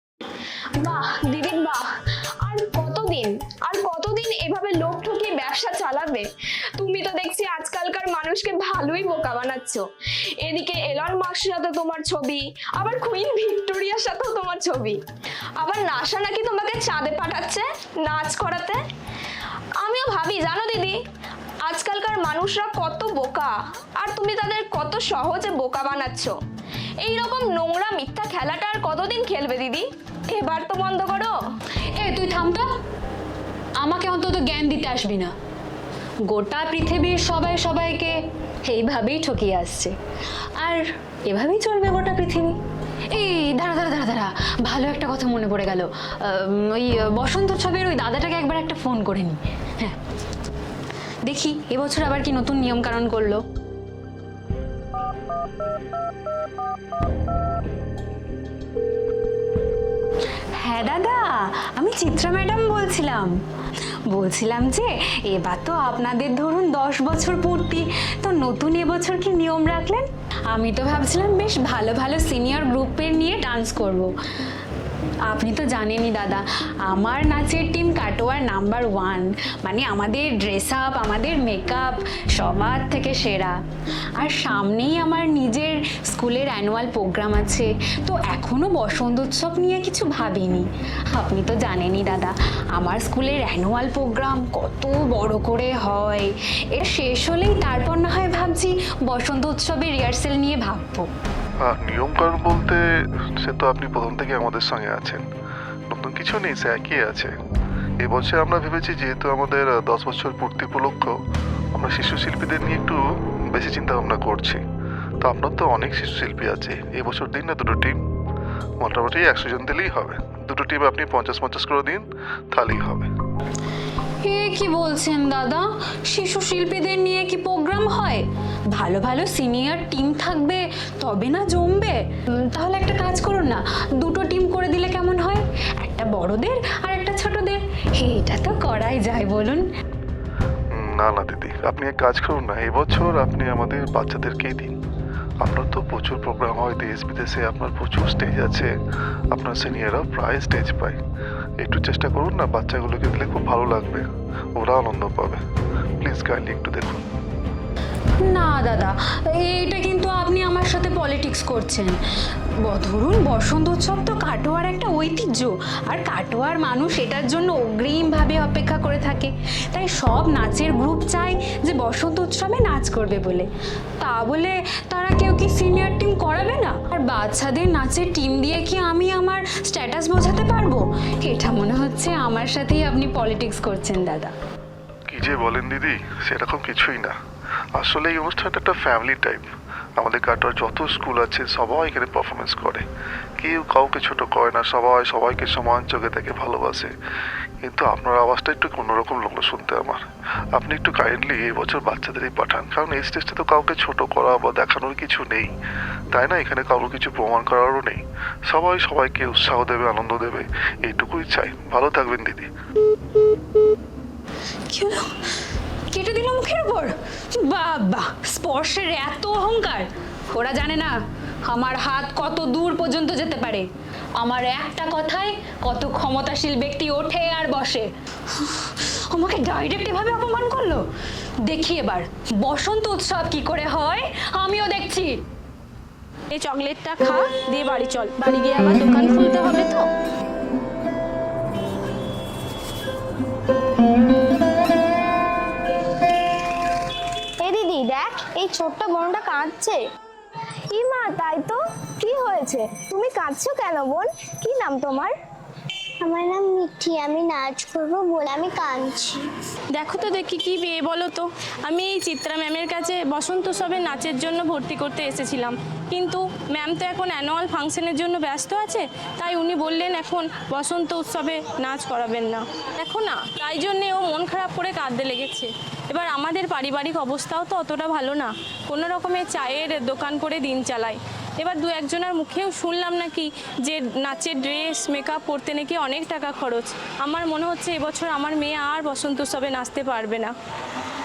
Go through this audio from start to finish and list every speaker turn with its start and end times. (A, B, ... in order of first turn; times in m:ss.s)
0:00.8-0:09.8 A
0:10.4-0:15.0 A
0:15.6-0:18.8 A
0:19.8-0:21.0 A
0:21.6-0:26.3 A
0:27.0-0:31.3 A
0:32.0-0:32.7 B
0:33.8-0:35.3 B
0:36.3-0:38.1 B
0:38.6-0:39.9 B
0:40.6-0:42.5 B
0:43.1-0:50.0 B
0:51.2-0:53.4 B
1:00.6-1:03.3 B
1:04.1-1:14.1 B
1:15.3-1:23.6 B
1:24.2-1:41.1 B
1:41.6-1:45.2 C
1:45.9-1:47.3 C
1:48.0-1:51.1 C
1:51.7-1:54.6 C
1:55.2-1:58.0 C
1:58.8-2:03.1 C
2:04.2-2:19.6 B
2:20.7-2:24.8 C
2:25.4-2:28.7 C
2:29.3-2:31.0 C
2:31.6-2:35.4 C
2:36.0-2:37.0 C
2:38.2-2:42.0 B
2:42.6-2:53.5 B
2:54.0-3:04.3 B
3:05.1-3:07.1 C
3:07.8-3:12.8 C
3:13.4-3:16.9 C
3:17.6-3:20.0 C
3:20.5-3:25.5 C
3:26.1-3:32.5 C
3:34.7-3:35.1 B
3:35.9-3:40.9 B
3:41.4-3:43.6 B
3:44.2-3:50.8 B
3:51.4-3:55.2 B
3:56.3-3:59.9 D
4:07.4-4:09.8 A
4:10.7-4:15.1 A
4:16.0-4:19.1 E
4:19.7-4:50.3 D